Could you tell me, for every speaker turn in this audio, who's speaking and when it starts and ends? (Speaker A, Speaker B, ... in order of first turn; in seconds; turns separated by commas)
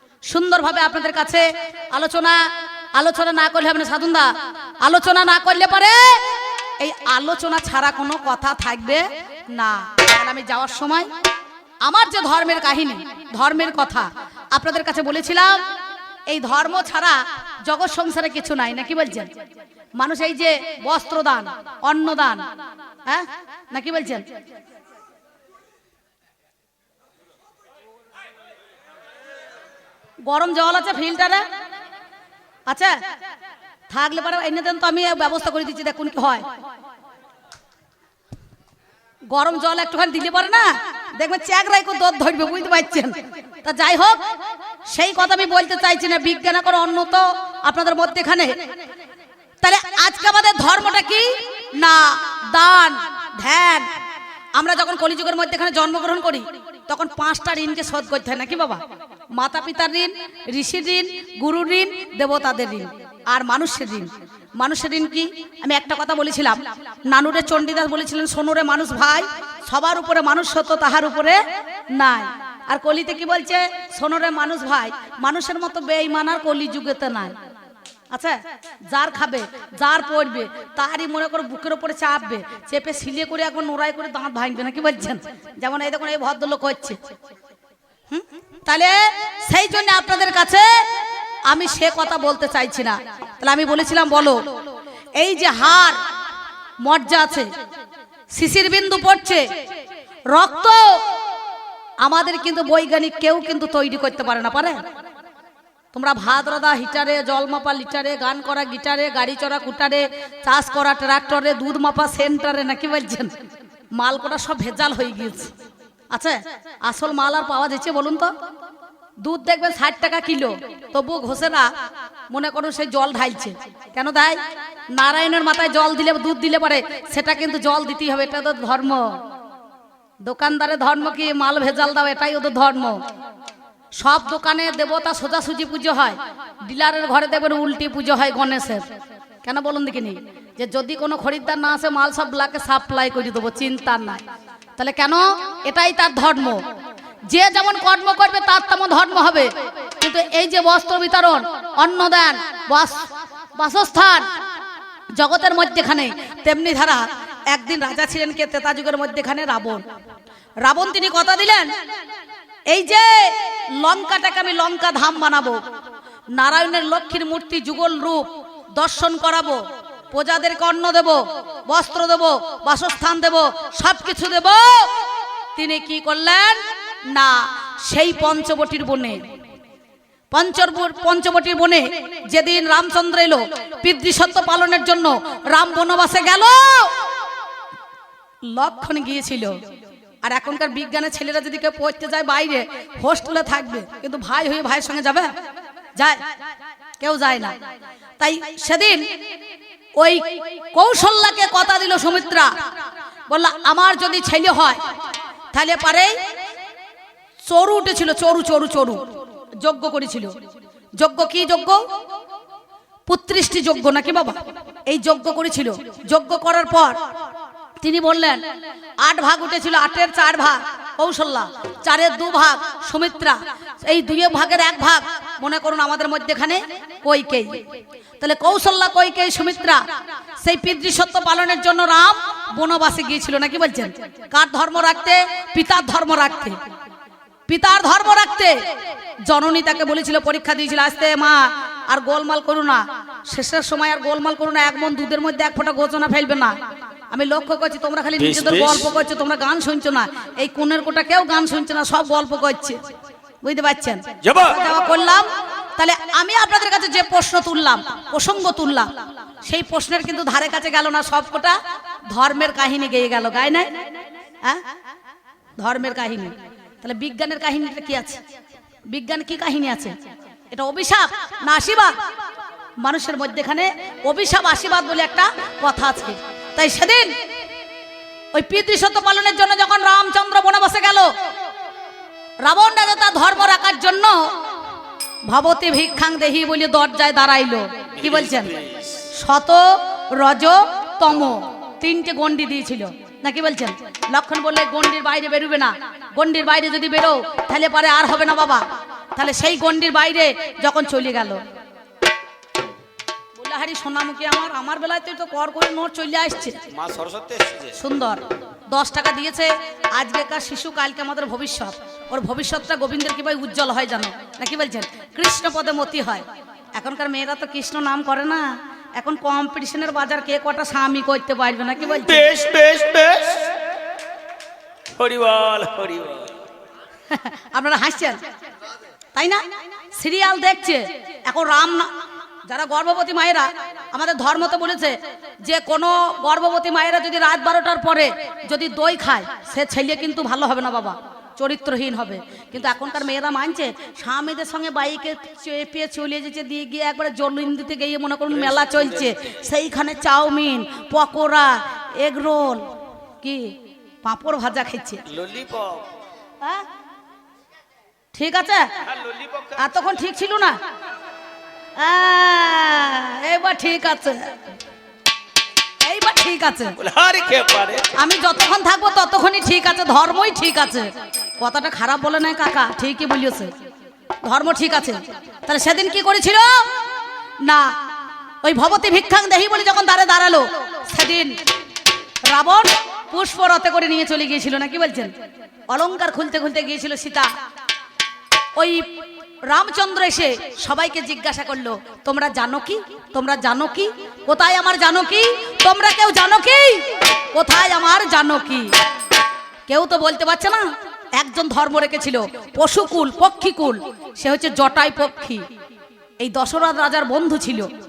Speaker A: 0.3-6.3, Speaker A: 6.8-11.1, Speaker A: 11.8-15.6, Speaker A: 16.3-19.3, Speaker A: 20.0-22.4, Speaker A: 23.0-24.3, Speaker A: 30.2-31.4, Speaker A: 32.7-33.0, Speaker A: 33.9-36.5, Speaker A: 39.3-44.2, Speaker A: 44.9-48.6, Speaker A: 49.6-53.9, Speaker A: 54.5-58.8, Speaker A: 59.3-71.4, Speaker A: 71.9-77.4, Speaker A: 78.1-87.0, Speaker A: 88.1-90.8, Speaker A: 91.5-94.5, Speaker A: 95.2-96.0, Speaker A: 96.8-97.5, Speaker A: 98.3-99.5, Speaker A: 100.3-101.0, Speaker A: 102.0-104.8, Speaker A: 105.9-113.4, Speaker A: 114.0-115.5, Speaker A: 116.1-118.3, Speaker A: 119.2-121.7, Speaker A: 122.3-124.4, Speaker A: 124.9-129.2, Speaker A: 130.2-133.0, Speaker A: 134.0-138.8, Speaker A: 139.4-144.2, Speaker A: 144.8-146.6, Speaker A: 147.3-154.3, Speaker A: 155.1-159.8, Speaker A: 160.6-161.7, Speaker A: 162.7-165.6, Speaker A: 166.3-174.9, Speaker A: 175.5-179.2, Speaker A: 180.3-186.9, Speaker A: 188.5-189.6, Speaker A: 190.2-195.3, Speaker A: 196.0-196.2, Speaker A: 197.0-197.6, Speaker A: 198.2-199.1, Speaker A: 200.0-202.5, Speaker A: 203.3-204.8, Speaker A: 205.5-206.2, Speaker A: 207.4-209.1, Speaker A: 209.6-210.3, Speaker A: 211.0-211.8, Speaker A: 213.1-217.0, Speaker A: 217.8-218.4, Speaker A: 219.0-227.6, Speaker A: 228.2-229.8, Speaker A: 230.4-236.6, Speaker A: 237.5-238.6, Speaker A: 239.2-246.6, Speaker A: 247.1-252.8, Speaker B: 248.2-248.9, Speaker A: 253.4-261.6, Speaker B: 254.2-254.6, Speaker A: 262.1-263.9, Speaker A: 265.6-268.2, Speaker A: 268.9-270.0, Speaker A: 270.5-272.0, Speaker A: 272.8-277.1, Speaker A: 278.3-281.1, Speaker A: 282.4-284.3, Speaker A: 285.3-288.6, Speaker B: 288.0-288.9, Speaker A: 289.1-301.4, Speaker A: 303.4-306.7, Speaker B: 306.7-307.8, Speaker A: 307.7-322.3, Speaker B: 322.0-323.5, Speaker B: 324.9-326.3, Speaker A: 327.1-328.2, Speaker A: 329.1-329.4, Speaker A: 330.0-331.9, Speaker A: 332.5-352.7, Speaker A: 353.2-355.1, Speaker B: 355.1-355.9, Speaker A: 356.4-356.7, Speaker A: 358.1-358.7, Speaker B: 359.0-359.5, Speaker A: 359.5-360.6, Speaker A: 361.8-364.3, Speaker A: 365.8-366.8, Speaker B: 366.8-367.9, Speaker A: 367.9-373.5, Speaker A: 374.2-376.7, Speaker A: 377.4-377.8, Speaker A: 378.4-381.4, Speaker A: 382.3-385.1, Speaker A: 385.7-387.3, Speaker A: 388.6-388.9, Speaker A: 389.5-398.7, Speaker A: 399.7-405.5, Speaker A: 406.2-407.7